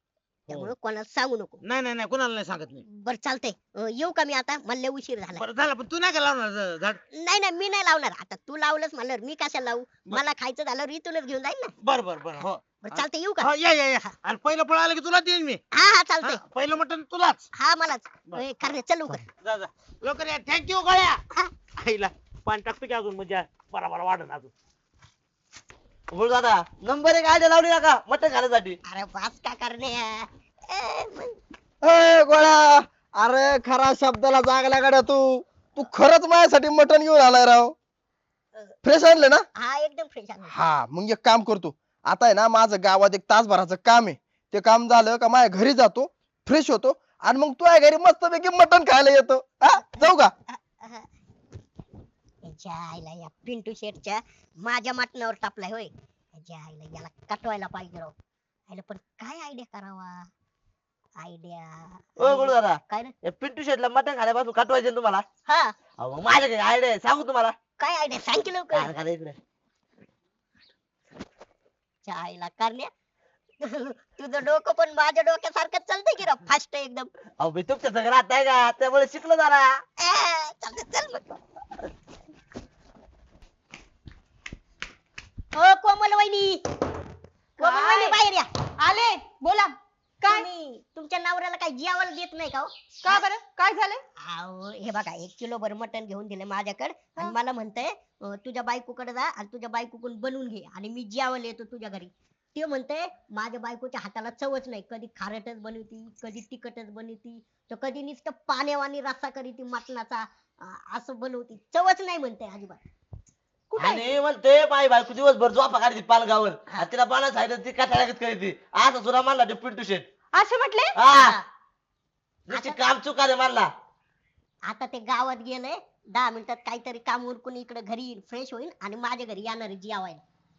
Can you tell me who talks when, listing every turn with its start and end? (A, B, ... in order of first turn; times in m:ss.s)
0:00.5-0:01.6 A
0:01.6-0:02.8 B
0:02.9-0:05.4 A
0:05.3-0:07.0 B
0:07.1-0:11.7 A
0:11.8-0:15.6 B
0:12.8-0:13.5 A
0:15.7-0:16.4 A
0:16.2-0:17.4 B
0:17.6-0:19.2 A
0:19.4-0:21.2 B
0:21.8-0:24.5 B
0:26.1-0:28.8 C
0:28.9-0:31.4 A
0:31.8-0:37.7 D
0:38.8-0:39.5 D
0:39.6-0:40.6 A
0:40.5-0:50.3 D
0:49.9-0:51.1 A
0:52.4-0:58.1 A
0:58.7-1:00.3 A
1:01.2-1:03.1 A
1:02.2-1:05.2 C
1:05.5-1:05.7 A
1:06.0-1:07.6 C
1:07.8-1:08.9 A
1:08.7-1:09.4 C
1:12.0-1:12.9 A
1:13.6-1:17.1 A
1:17.4-1:19.8 C
1:20.0-1:21.3 A
1:25.5-1:26.6 A
1:27.6-1:28.5 A
1:27.6-1:28.2 E
1:28.8-1:30.5 E
1:30.3-1:33.2 A
1:33.0-1:34.0 E
1:34.2-1:52.8 A
1:53.7-1:54.0 E
1:53.8-2:00.1 C
2:00.3-2:01.0 E
2:00.9-2:01.4 C
2:01.2-2:01.4 A
2:02.5-2:03.7 C
2:02.5-2:02.8 A
2:04.7-2:10.2 A